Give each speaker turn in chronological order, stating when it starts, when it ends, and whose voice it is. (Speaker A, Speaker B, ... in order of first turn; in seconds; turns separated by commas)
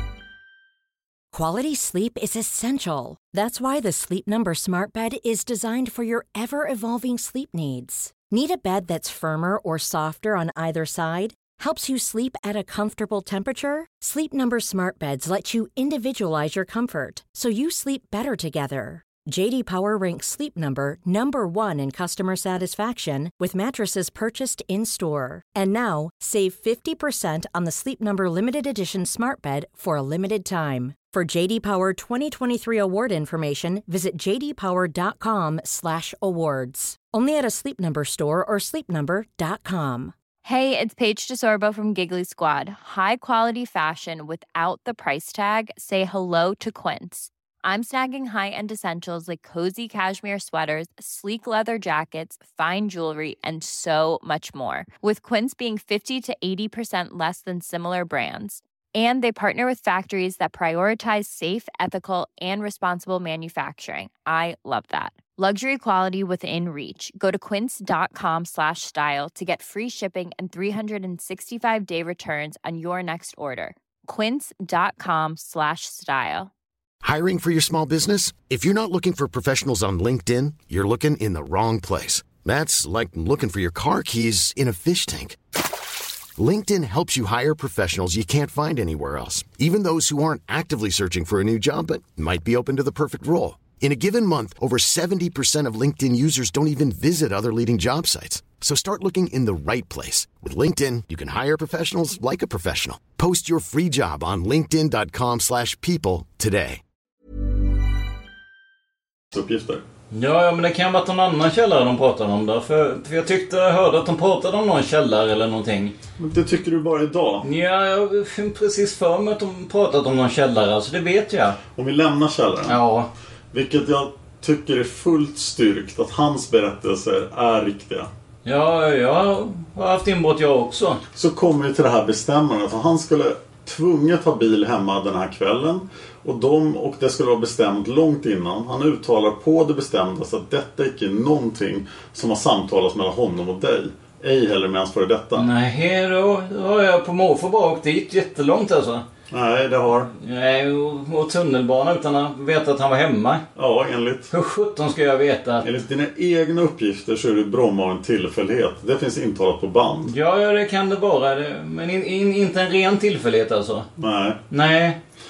Speaker A: 1.3-40.1, Speaker B: 40.4-76.5, Speaker C: 77.0-85.4, Speaker C: 86.4-106.8, Speaker D: 109.3-109.8, Speaker E: 110.1-115.9, Speaker D: 116.2-117.4, Speaker E: 117.4-121.6, Speaker D: 121.8-122.8, Speaker E: 122.7-123.1, Speaker D: 123.5-128.1, Speaker E: 128.4-131.0, Speaker D: 131.2-145.5, Speaker E: 145.3-149.0, Speaker D: 149.3-150.1, Speaker E: 150.1-153.4, Speaker D: 153.6-154.3, Speaker E: 154.3-155.7, Speaker D: 155.6-160.1, Speaker E: 160.0-163.9, Speaker D: 164.0-164.4, Speaker E: 164.5-165.0